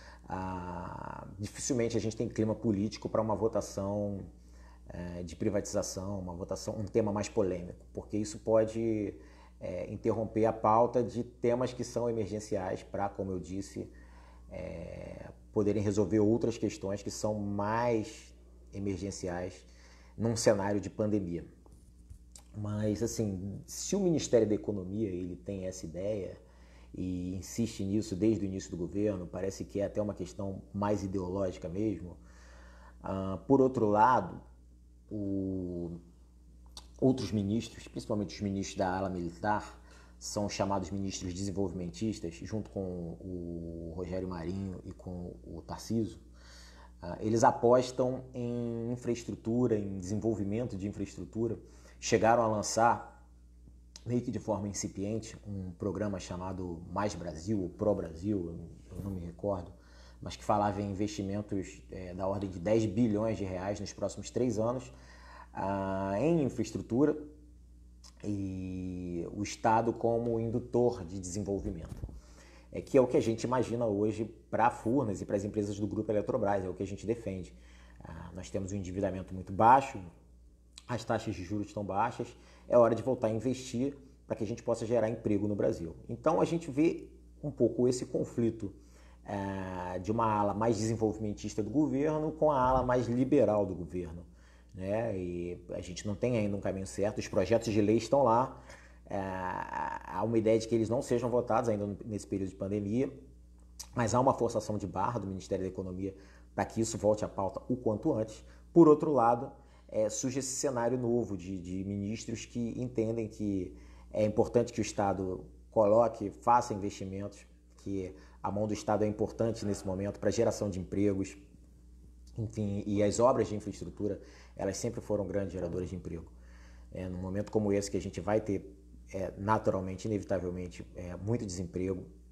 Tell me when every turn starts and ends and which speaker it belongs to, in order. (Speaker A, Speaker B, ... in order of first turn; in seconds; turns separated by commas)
Speaker A: 0.3-4.3, Speaker A: 4.9-13.9, Speaker A: 14.5-21.5, Speaker A: 22.5-26.4, Speaker A: 26.9-32.2, Speaker A: 33.0-34.4, Speaker A: 35.1-36.0, Speaker A: 37.0-46.2, Speaker A: 47.0-53.2, Speaker A: 54.1-64.9, Speaker A: 65.5-67.3, Speaker A: 68.2-72.0, Speaker A: 72.7-80.1, Speaker A: 80.9-103.2, Speaker A: 104.0-121.4, Speaker A: 122.4-126.3, Speaker A: 126.9-132.1